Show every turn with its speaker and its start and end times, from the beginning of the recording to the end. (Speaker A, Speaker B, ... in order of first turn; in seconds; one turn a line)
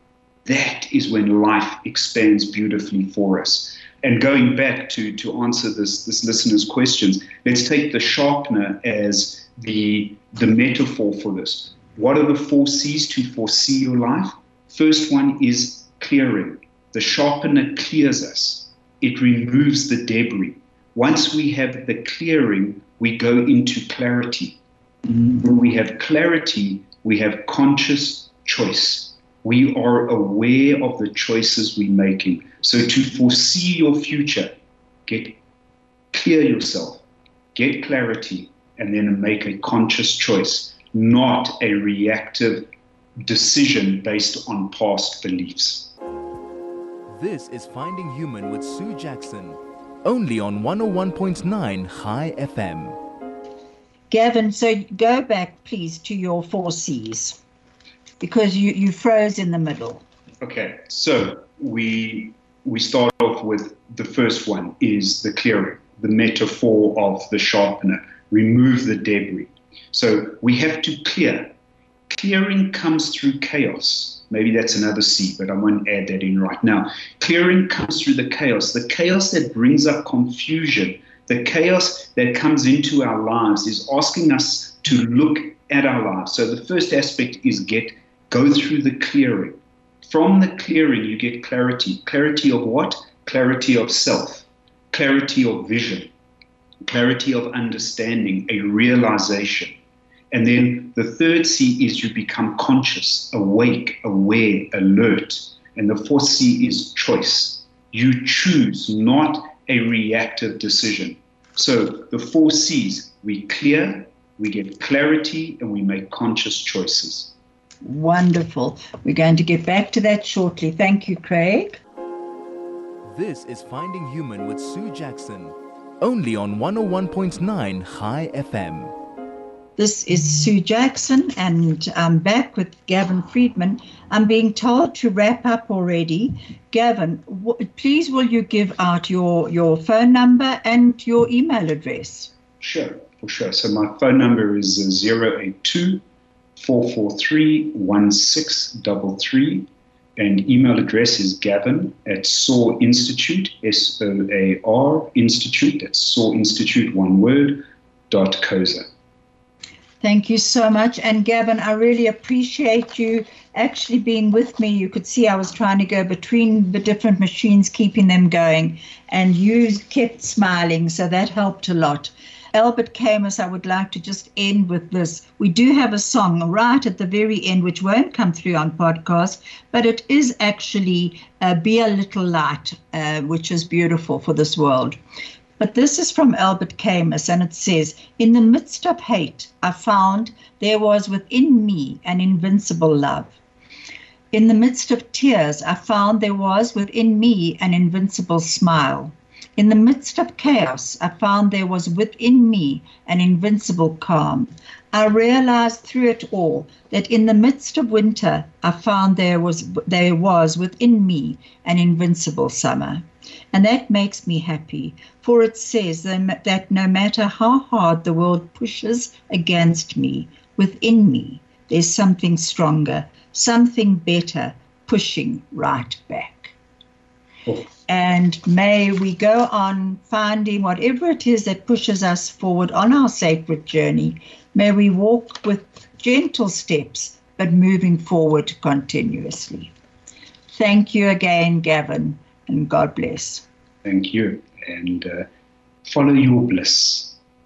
Speaker A: 0.4-24.6
Speaker A: 25.4-34.5
Speaker A: 35.0-35.4
Speaker A: 36.1-37.0
Speaker A: 37.5-45.9
Speaker B: 47.1-53.0
Speaker C: 54.1-57.4
Speaker C: 58.2-60.0
Speaker A: 60.4-71.5
Speaker A: 72.1-96.1
Speaker A: 96.8-99.8
Speaker A: 100.3-117.3
Speaker C: 117.8-121.8
Speaker B: 123.0-128.9
Speaker C: 129.8-142.3
Speaker A: 142.6-146.0
Speaker A: 146.6-158.8
Speaker C: 160.0-185.0
Speaker C: 185.6-193.3
Speaker C: 194.3-226.5
Speaker C: 227.9-239.7
Speaker C: 240.5-243.4
Speaker A: 243.8-245.3
Speaker A: 245.8-247.2